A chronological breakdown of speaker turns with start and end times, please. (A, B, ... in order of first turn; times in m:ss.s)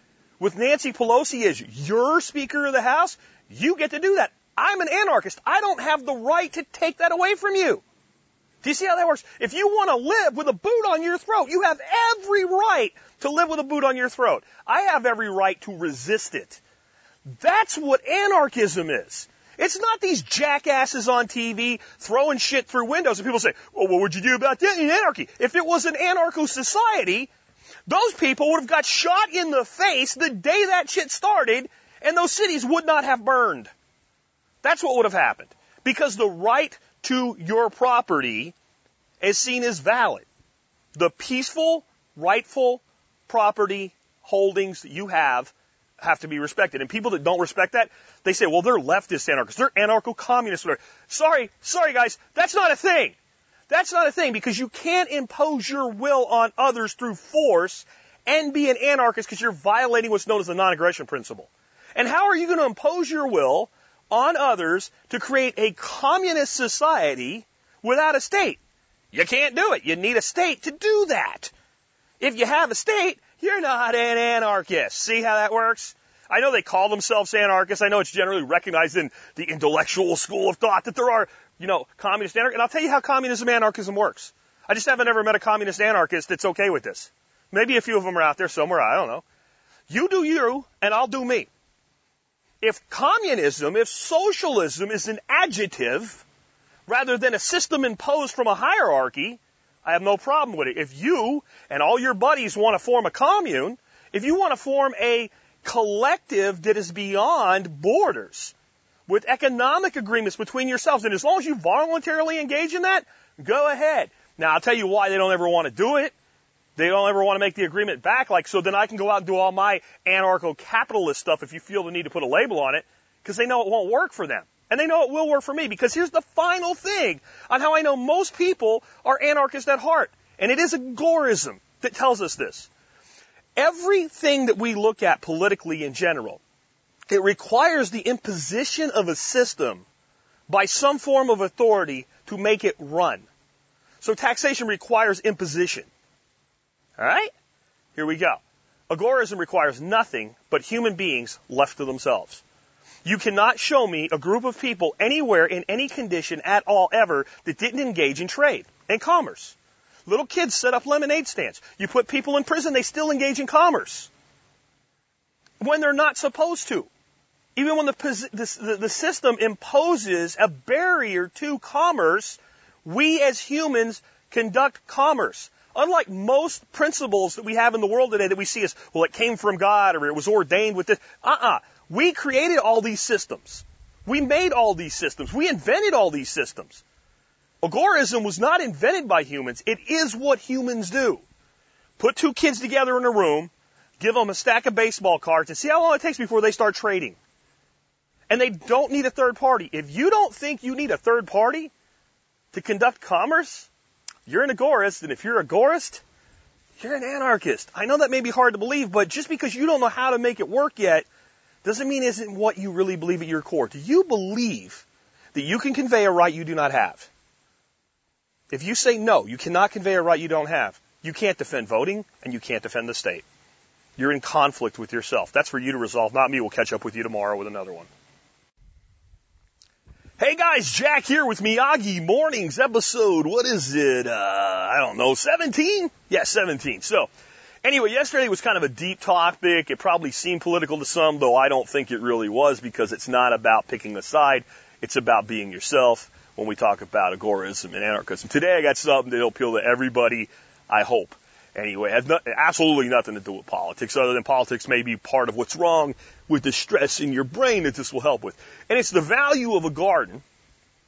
0:00.4-0:07.8 A
0:08.6-0:16.6 A
0:17.3-0:27.3 A
0:27.9-0:33.7 A
0:34.6-0:38.5 A
0:39.2-0:40.3 A
0:41.0-0:53.2 A
0:53.7-1:08.6 A
1:09.1-1:11.5 A
1:12.2-1:29.2 A
1:29.9-1:31.5 A
1:32.6-1:36.2 A
1:36.9-1:48.5 A
1:49.1-1:56.1 A
1:56.8-2:12.7 A
2:13.6-2:16.4 A
2:17.1-2:19.9 A
2:20.5-2:23.3 A
2:24.0-2:25.9 A
2:27.0-2:27.3 A
2:28.0-2:32.4 A
2:33.0-2:39.6 A
2:40.1-2:44.1 A
2:45.6-2:46.9 A
2:47.6-3:06.8 A
3:07.6-3:11.2 A
3:12.0-3:17.2 A
3:18.3-3:21.7 A
3:22.5-3:23.7 A
3:24.3-3:26.0 A
3:26.8-3:31.1 A
3:31.6-3:37.1 A
3:38.5-3:43.2 A
3:44.0-3:47.9 A
3:50.2-3:57.1 A
3:57.6-4:20.2 A